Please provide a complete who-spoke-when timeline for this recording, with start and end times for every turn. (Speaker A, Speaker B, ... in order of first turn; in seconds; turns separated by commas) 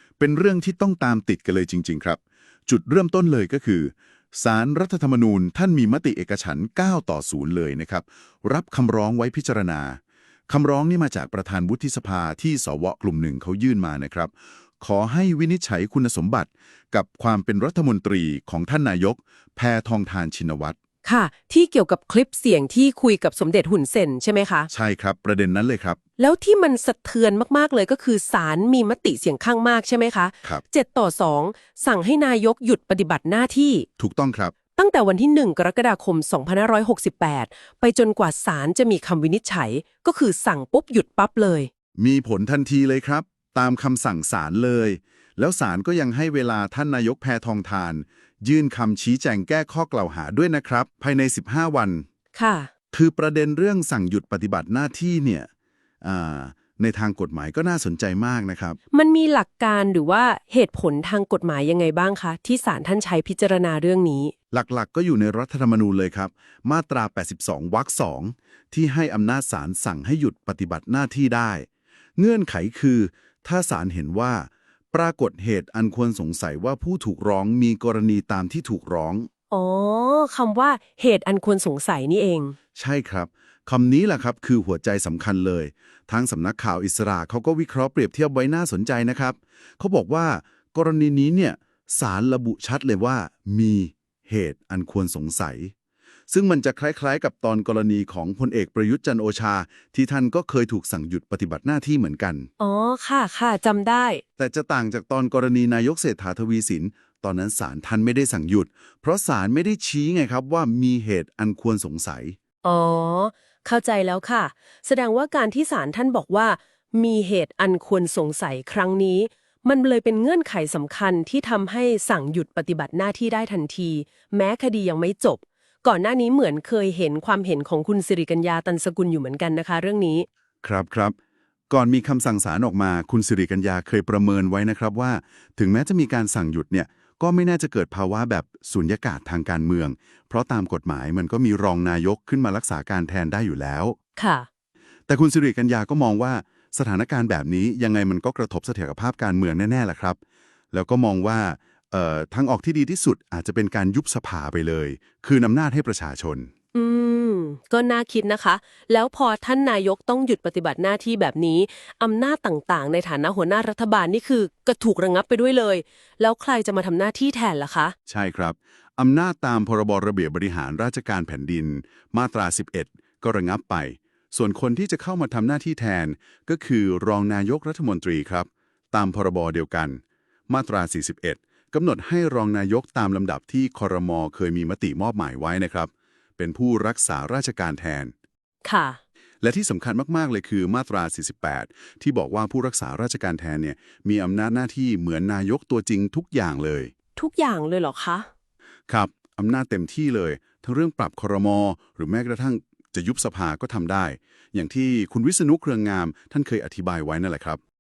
Speaker A: 0.2-20.8, Speaker B: 21.0-24.7, Speaker A: 24.7-26.0, Speaker B: 26.2-33.9, Speaker A: 34.0-34.5, Speaker B: 34.8-41.7, Speaker A: 42.0-52.0, Speaker B: 52.3-52.7, Speaker A: 52.9-55.5, Speaker A: 56.0-58.8, Speaker B: 58.9-64.3, Speaker A: 64.5-79.3, Speaker B: 79.5-82.5, Speaker A: 82.8-95.7, Speaker A: 96.3-102.5, Speaker B: 102.6-104.2, Speaker A: 104.4-112.4, Speaker B: 112.6-130.2, Speaker A: 130.6-131.1, Speaker A: 131.7-143.9, Speaker B: 144.2-144.5, Speaker A: 145.1-150.2, Speaker A: 150.7-156.5, Speaker B: 156.7-167.9, Speaker A: 168.1-188.1, Speaker B: 188.6-189.0, Speaker A: 189.4-196.9, Speaker B: 197.2-198.3, Speaker A: 198.9-207.6